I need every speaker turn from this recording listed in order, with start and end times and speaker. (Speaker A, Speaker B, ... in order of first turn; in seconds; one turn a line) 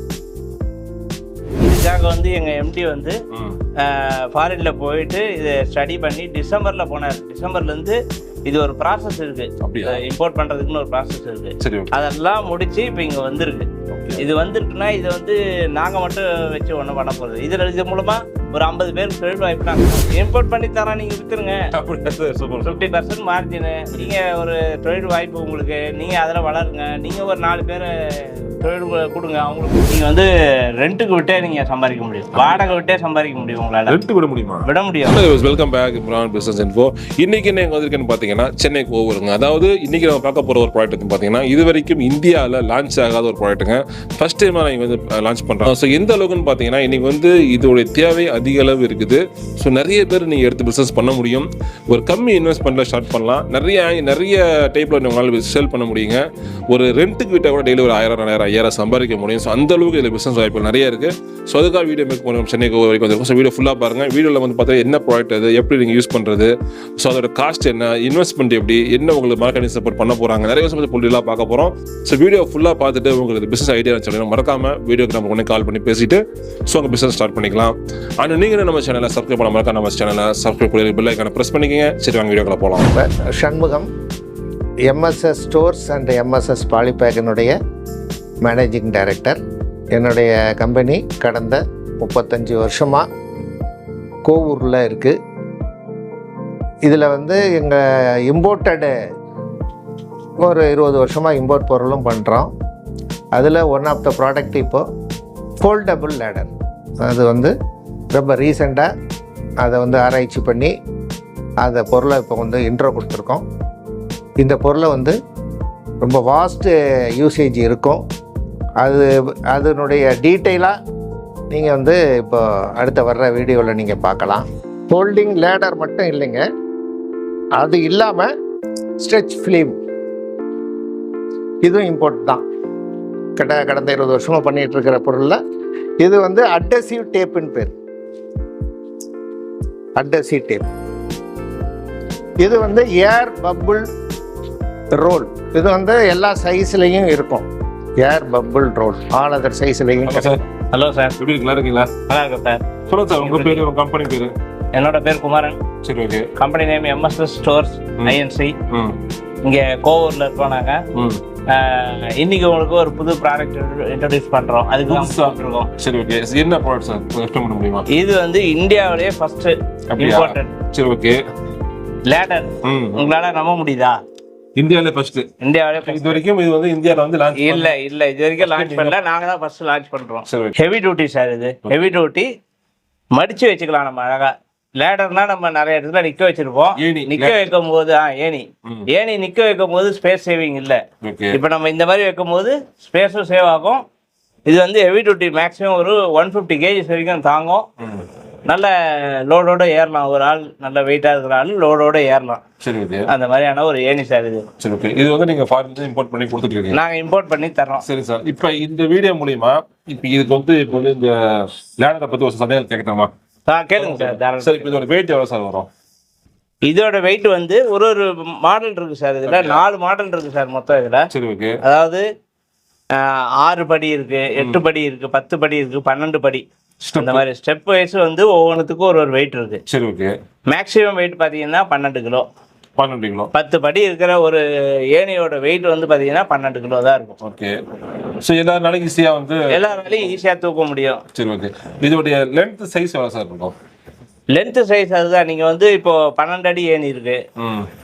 Speaker A: 1.6-3.2
Speaker B: 3.3-3.6
Speaker A: 3.8-21.7
Speaker B: 9.6-10.0
Speaker B: 11.6-11.9
Speaker B: 13.9-14.3
Speaker B: 21.8-22.8
Speaker A: 22.6-34.0
Speaker B: 32.4-32.6
Speaker B: 33.9-82.9
Speaker A: 34.6-35.2
Speaker C: 82.9-83.9
Speaker C: 84.9-87.5
Speaker C: 88.4-89.4
Speaker C: 89.9-93.0
Speaker C: 94.2-95.2
Speaker C: 96.8-98.9
Speaker C: 100.4-102.5
Speaker C: 103.3-104.8
Speaker C: 105.6-107.5
Speaker C: 108.1-108.9
Speaker C: 109.6-110.7
Speaker C: 111.6-113.4
Speaker C: 114.4-115.2
Speaker C: 116.0-118.0
Speaker C: 118.8-120.8
Speaker C: 121.5-126.4
Speaker C: 127.6-128.3
Speaker C: 129.0-129.8
Speaker C: 131.6-132.4
Speaker C: 133.4-135.4
Speaker C: 136.0-137.7
Speaker C: 140.0-140.7
Speaker C: 142.4-143.9
Speaker C: 145.0-147.5
Speaker C: 148.0-150.3
Speaker B: 150.1-150.4
Speaker A: 150.7-151.2
Speaker B: 151.2-151.9
Speaker A: 152.1-152.7
Speaker B: 152.9-154.3
Speaker A: 153.2-153.6
Speaker A: 154.7-155.6
Speaker B: 155.8-156.3
Speaker A: 156.4-158.6
Speaker B: 158.7-159.0
Speaker A: 159.4-160.8
Speaker B: 160.9-161.2
Speaker A: 161.5-165.7
Speaker B: 164.9-167.9
Speaker A: 167.9-170.6
Speaker B: 169.9-171.2
Speaker A: 172.1-174.0
Speaker B: 172.6-173.0
Speaker B: 174.6-175.3
Speaker A: 175.4-176.2
Speaker B: 175.8-177.8
Speaker A: 177.4-182.3
Speaker B: 178.4-179.0
Speaker B: 180.3-180.6
Speaker A: 183.1-193.8
Speaker B: 186.8-187.5
Speaker B: 191.0-191.4
Speaker A: 194.5-197.7
Speaker A: 198.5-202.4
Speaker B: 202.6-203.1
Speaker A: 203.1-204.5
Speaker B: 204.6-206.8
Speaker A: 206.7-207.8
Speaker B: 207.8-213.1
Speaker A: 213.5-214.8
Speaker B: 213.8-215.7
Speaker A: 216.6-221.1
Speaker B: 219.3-219.6
Speaker B: 221.1-221.6
Speaker A: 221.6-222.1
Speaker A: 222.9-226.4
Speaker B: 226.8-227.2
Speaker A: 227.0-229.6
Speaker B: 229.7-230.1
Speaker A: 230.5-232.3
Speaker B: 232.8-233.3
Speaker A: 233.3-237.2
Speaker B: 237.2-237.5
Speaker B: 238.2-239.4
Speaker A: 239.5-241.0
Speaker B: 241.1-243.6
Speaker A: 244.3-247.2
Speaker B: 247.4-247.7